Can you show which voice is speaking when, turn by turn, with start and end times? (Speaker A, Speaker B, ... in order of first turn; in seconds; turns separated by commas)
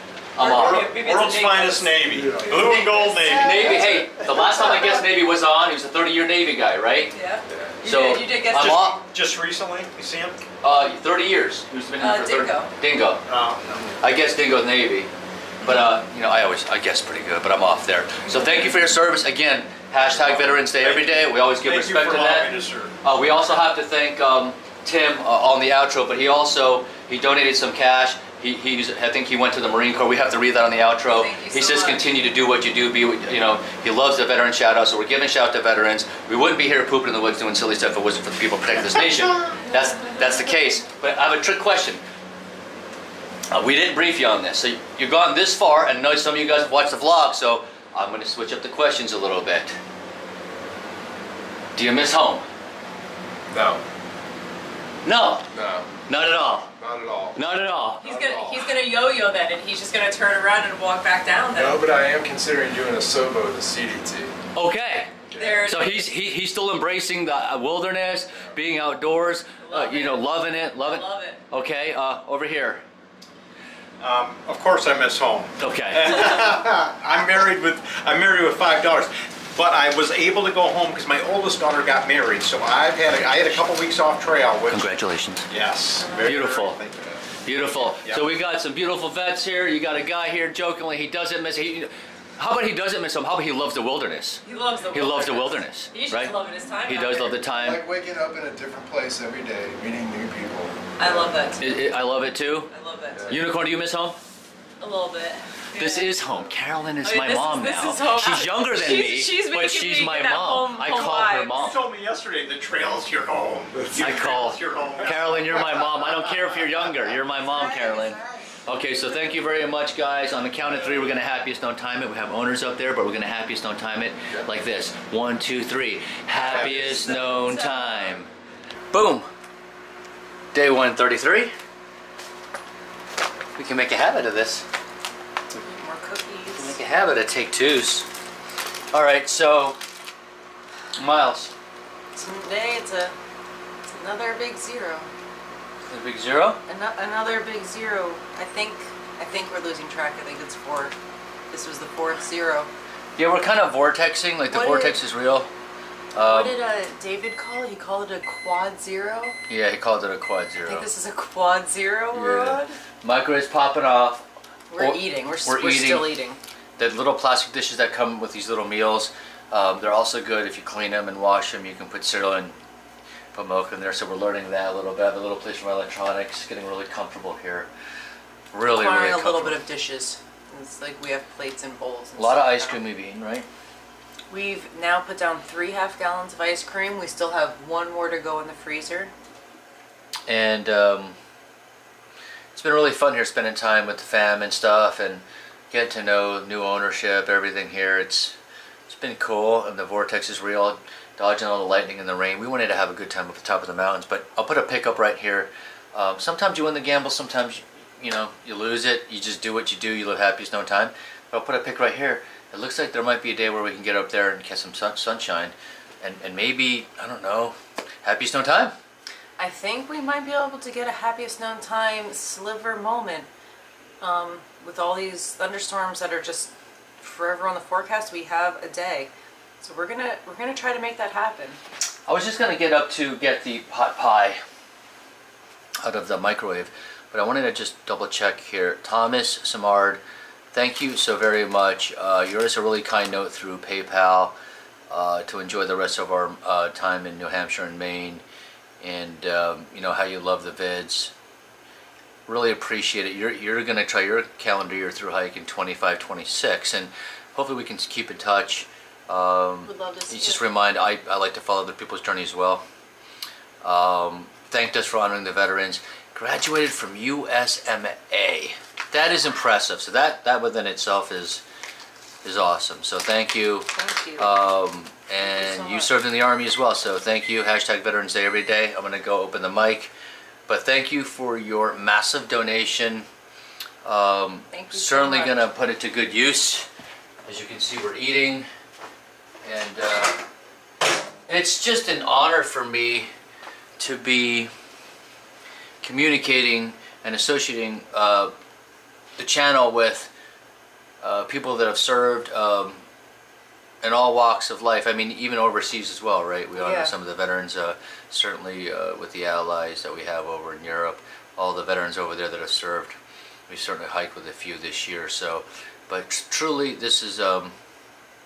Speaker A: 0.3-0.9, Speaker B: 0.4-3.9, Speaker C: 0.4-4.0, Speaker D: 2.1-2.8, Speaker A: 2.5-7.1, Speaker B: 7.1-8.8, Speaker A: 7.8-9.0, Speaker C: 8.5-10.4, Speaker A: 10.6-13.2, Speaker B: 12.0-12.7, Speaker C: 13.3-13.9, Speaker A: 14.0-15.1, Speaker A: 15.6-22.5, Speaker C: 20.1-22.9, Speaker A: 23.0-42.0, Speaker B: 31.1-32.0, Speaker A: 43.5-49.7, Speaker A: 51.7-52.5, Speaker D: 53.5-53.8, Speaker A: 55.0-55.5, Speaker D: 55.5-55.9, Speaker A: 56.1-56.7, Speaker D: 56.8-57.4, Speaker A: 57.4-58.0, Speaker B: 58.0-61.8, Speaker D: 58.0-58.6, Speaker D: 61.5-64.3, Speaker A: 64.5-65.1, Speaker D: 65.3-65.6, Speaker B: 65.3-66.1, Speaker A: 65.7-72.8, Speaker B: 69.6-70.3, Speaker B: 70.8-71.4, Speaker C: 74.0-84.8, Speaker A: 75.6-76.2, Speaker A: 84.7-85.5, Speaker C: 85.5-87.2, Speaker B: 86.0-86.6, Speaker A: 86.2-86.8, Speaker A: 87.4-97.8, Speaker C: 87.8-88.2, Speaker B: 94.4-97.4, Speaker D: 97.6-101.3, Speaker B: 101.0-101.6, Speaker A: 101.6-102.7, Speaker B: 102.7-103.3, Speaker A: 103.3-104.2, Speaker B: 104.8-106.1, Speaker A: 105.8-111.8, Speaker B: 107.0-111.6, Speaker C: 111.5-115.9, Speaker A: 114.0-128.3, Speaker B: 117.5-118.2, Speaker C: 126.4-127.3, Speaker B: 126.6-128.2, Speaker A: 128.9-129.3, Speaker A: 130.5-131.5, Speaker A: 133.5-134.6, Speaker B: 135.5-136.8, Speaker A: 136.6-138.1, Speaker A: 138.9-139.8, Speaker A: 140.9-141.5, Speaker B: 142.1-143.2, Speaker B: 143.9-145.1, Speaker A: 145.8-146.6, Speaker B: 146.7-150.9, Speaker B: 151.5-152.7, Speaker A: 153.2-155.5, Speaker B: 154.5-155.0, Speaker A: 156.1-156.6, Speaker B: 156.2-159.4, Speaker A: 159.5-160.8, Speaker B: 160.6-162.8, Speaker A: 162.1-164.2, Speaker B: 164.7-166.4, Speaker A: 164.8-166.1, Speaker A: 166.8-172.5, Speaker A: 173.3-177.7, Speaker A: 178.5-179.6, Speaker B: 178.7-182.8, Speaker A: 182.2-183.4, Speaker B: 184.3-189.1, Speaker A: 190.3-191.2, Speaker A: 192.5-198.3, Speaker A: 198.9-218.7, Speaker B: 219.4-223.3, Speaker B: 224.0-231.6, Speaker A: 232.1-234.4, Speaker A: 235.8-240.0, Speaker A: 240.5-244.3, Speaker A: 244.9-248.2, Speaker A: 248.8-251.1, Speaker A: 252.3-262.6, Speaker B: 259.6-260.4, Speaker A: 263.6-271.4, Speaker A: 272.2-279.9, Speaker B: 273.7-274.3, Speaker B: 275.2-275.9, Speaker A: 280.5-283.1, Speaker A: 283.8-286.7, Speaker B: 284.5-285.5, Speaker A: 287.2-288.5, Speaker A: 289.4-290.2, Speaker A: 291.3-293.1, Speaker A: 293.8-294.5, Speaker A: 295.8-298.3, Speaker A: 299.2-300.1, Speaker A: 301.0-302.8, Speaker A: 303.8-312.9, Speaker B: 306.6-306.9, Speaker A: 313.5-317.5